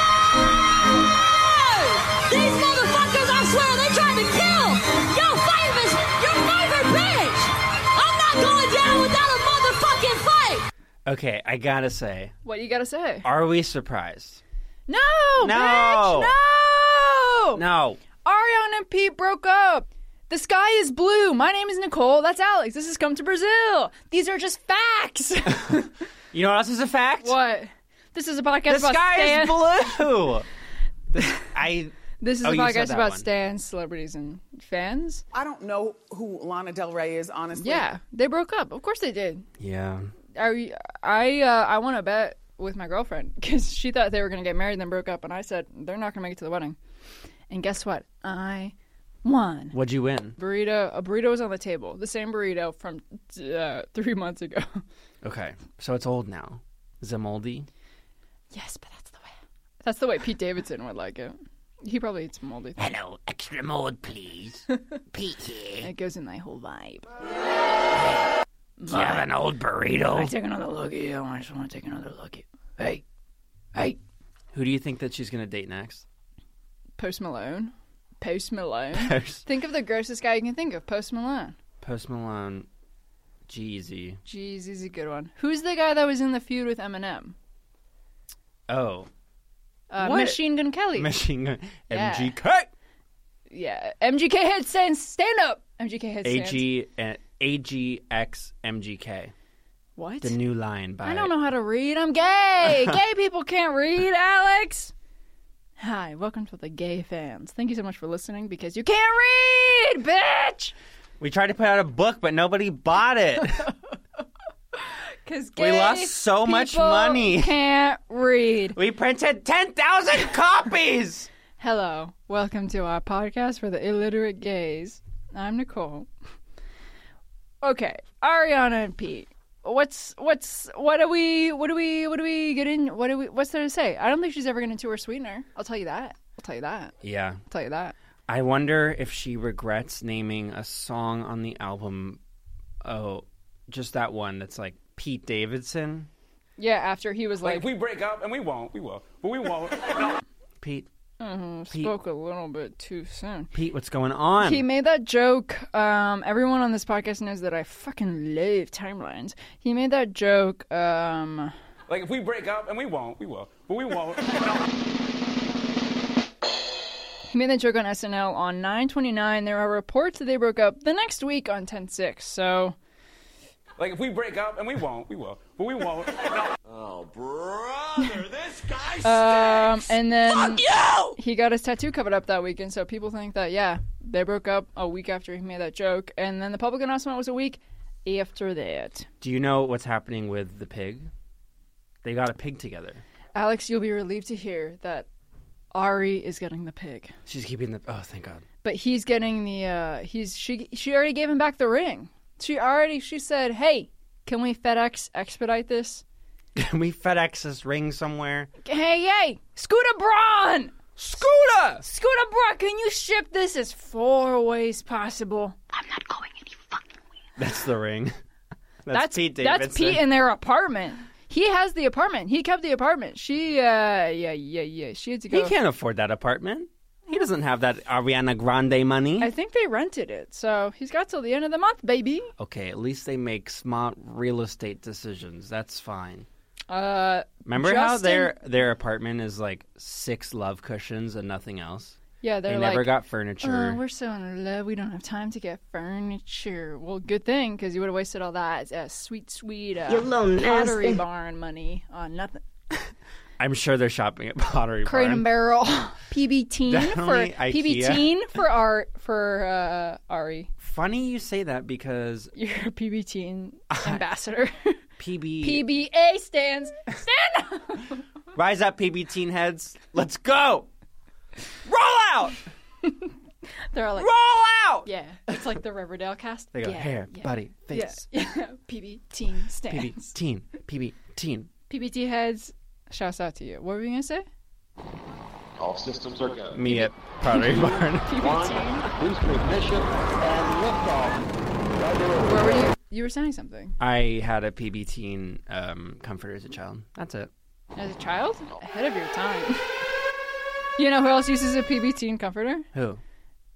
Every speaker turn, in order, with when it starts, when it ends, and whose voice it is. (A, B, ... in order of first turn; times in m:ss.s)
0:01.7-0:02.0 A
0:03.5-0:03.8 B
0:09.1-0:10.3 B
0:11.1-0:12.3 C
0:12.4-0:13.3 A
0:13.2-0:14.4 C
0:14.9-0:17.6 A
0:15.4-0:16.4 C
0:17.6-0:18.0 C
0:18.2-0:26.0 A
0:26.3-0:27.4 C
0:27.2-0:30.0 A
0:28.7-0:30.5 C
0:31.1-0:33.3 C
0:32.2-0:35.2 A
0:35.3-0:37.8 D
0:37.6-0:39.5 A
0:39.6-0:40.1 C
0:40.3-0:46.8 A
0:47.5-0:49.8 A
0:49.7-0:50.4 C
0:50.4-0:54.8 A
0:55.2-0:57.7 C
0:58.5-1:02.8 A
1:02.8-1:05.9 C
1:05.8-1:07.1 A
1:08.0-1:08.2 C
1:08.8-1:09.3 A
1:08.9-1:10.3 C
1:10.1-1:13.0 A
1:14.5-1:16.0 C
1:17.0-1:21.6 A
1:18.9-1:19.4 C
1:21.8-1:22.7 C
1:23.5-1:24.2 C
1:24.2-1:27.4 A
1:28.7-1:29.1 C
1:29.9-1:31.1 A
1:30.0-1:32.7 C
1:31.9-1:32.4 A
1:33.5-1:36.7 A
1:36.2-1:39.3 C
1:40.0-1:40.4 A
1:40.2-1:41.3 C
1:41.0-1:44.9 A
1:42.6-1:42.9 C
1:45.8-1:50.7 A
1:51.2-1:53.7 C
1:54.8-1:58.8 A
1:55.6-1:57.6 C
1:58.7-2:01.3 C
2:01.6-2:06.1 A
2:07.6-2:17.0 A
2:17.0-2:17.4 C
2:17.5-2:17.9 A
2:18.3-2:22.2 C
2:22.8-2:26.1 C
2:26.6-2:27.7 A
2:27.4-2:30.2 E
2:30.6-2:30.9 C
2:31.2-2:33.5 A
2:33.5-2:34.6 C
2:34.4-2:41.5 A
2:41.9-2:44.6 E
2:47.3-2:52.8 A
2:53.8-2:56.6 E
2:56.7-2:59.2 F
2:59.0-3:09.1 A
3:00.5-3:01.1 D
3:09.2-3:11.1 C
3:12.0-3:13.0 C
3:13.4-3:15.1 A
3:15.7-3:17.2 A
3:17.3-3:18.4 C
3:18.6-3:26.0 A
3:26.6-3:28.5 C
3:28.6-3:35.6 A
3:31.0-3:31.8 C
3:37.4-3:38.2 C
3:38.8-3:40.1 C
3:38.9-3:45.6 A
3:45.3-3:49.3 C
3:49.2-3:52.3 A
3:52.4-3:56.3 C
3:56.7-3:58.3 A
3:57.5-4:03.8 C
4:02.2-4:12.4 A
4:09.9-4:11.0 B
4:13.4-4:15.3 C
4:14.8-4:20.5 A
4:16.7-4:18.1 C
4:20.6-4:22.3 C
4:22.4-4:24.8 A
4:23.7-4:24.0 C
4:25.0-4:25.7 C
4:25.4-4:28.0 A
4:28.3-4:30.7 C
4:31.6-4:32.4 C
4:32.8-4:33.1 A
4:33.7-4:34.1 A
4:34.0-4:34.9 C
4:34.8-4:40.1 A
4:36.5-4:38.0 C
4:39.7-4:41.5 C
4:41.7-4:44.3 A
4:45.6-4:46.6 F
4:46.5-4:48.3 C
4:46.7-4:48.9 A
4:48.2-4:51.2 F
4:52.1-4:53.8 A
4:53.8-4:57.3 C
4:57.8-4:59.6 A
5:00.8-5:02.7 A
5:02.7-5:03.0 C